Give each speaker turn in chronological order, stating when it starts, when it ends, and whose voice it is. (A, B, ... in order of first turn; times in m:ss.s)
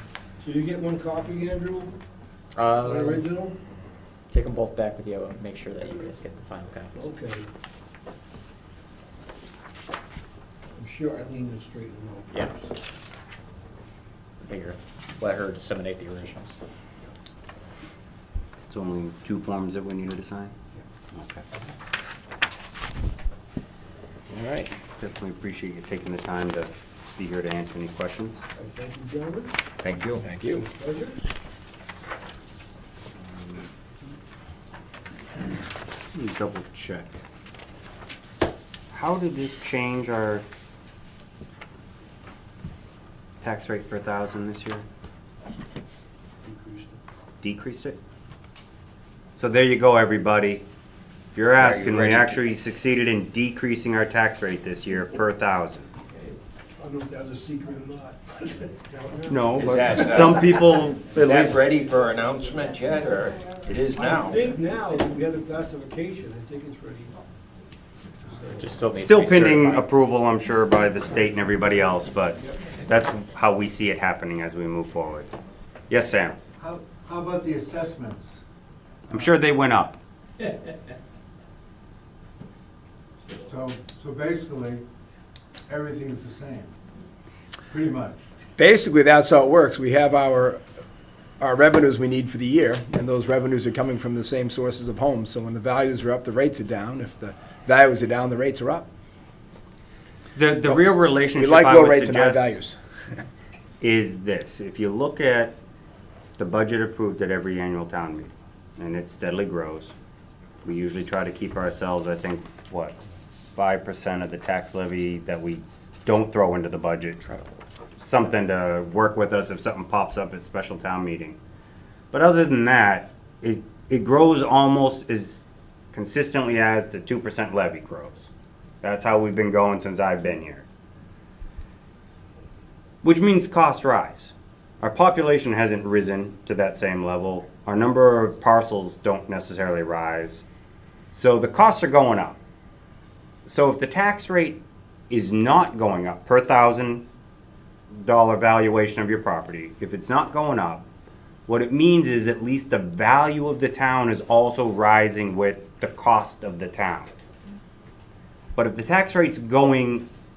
0:00.4-0:02.0 A
0:02.6-0:03.3 B
0:02.8-0:03.6 A
0:04.3-0:07.1 B
0:06.9-0:07.5 A
0:10.8-0:12.7 A
0:14.4-0:16.6 B
0:18.7-0:20.5 C
0:21.1-0:21.4 C
0:24.3-0:24.7 D
0:25.0-0:28.4 C
0:28.6-0:29.5 A
0:29.8-0:30.2 E
0:30.2-0:30.7 D
0:30.6-0:31.3 A
0:33.2-0:33.6 C
0:36.1-0:37.2 C
0:38.9-0:40.4 C
0:43.4-0:44.8 C
0:46.4-0:47.0 A
0:47.4-0:48.0 C
0:49.4-0:50.6 C
0:51.3-0:55.9 C
0:51.6-0:52.4 E
0:56.8-1:00.3 A
0:59.3-1:01.6 C
0:59.6-1:00.6 E
1:01.2-1:04.5 E
1:03.9-1:07.2 A
1:08.3-1:08.6 A
1:08.6-1:09.9 B
1:09.0-1:15.3 C
1:15.9-1:16.4 C
1:16.6-1:18.4 F
1:19.1-1:20.0 C
1:23.3-1:24.8 F
1:25.7-1:26.7 F
1:27.7-1:28.2 F
1:28.6-1:30.6 D
1:31.4-1:38.9 D
1:40.3-1:42.6 C
1:40.6-1:42.8 D
1:43.8-1:45.6 C
1:46.4-1:49.9 C
1:50.6-1:53.0 C
1:53.6-1:57.3 C
1:58.0-2:01.4 C
2:02.1-2:05.4 C
2:05.9-2:08.3 C
2:08.8-2:10.7 C
2:13.0-2:20.4 C
2:21.1-2:22.4 C
2:23.5-2:27.0 C
2:27.9-2:30.8 C
2:31.5-2:37.1 C
2:38.6-2:40.1 C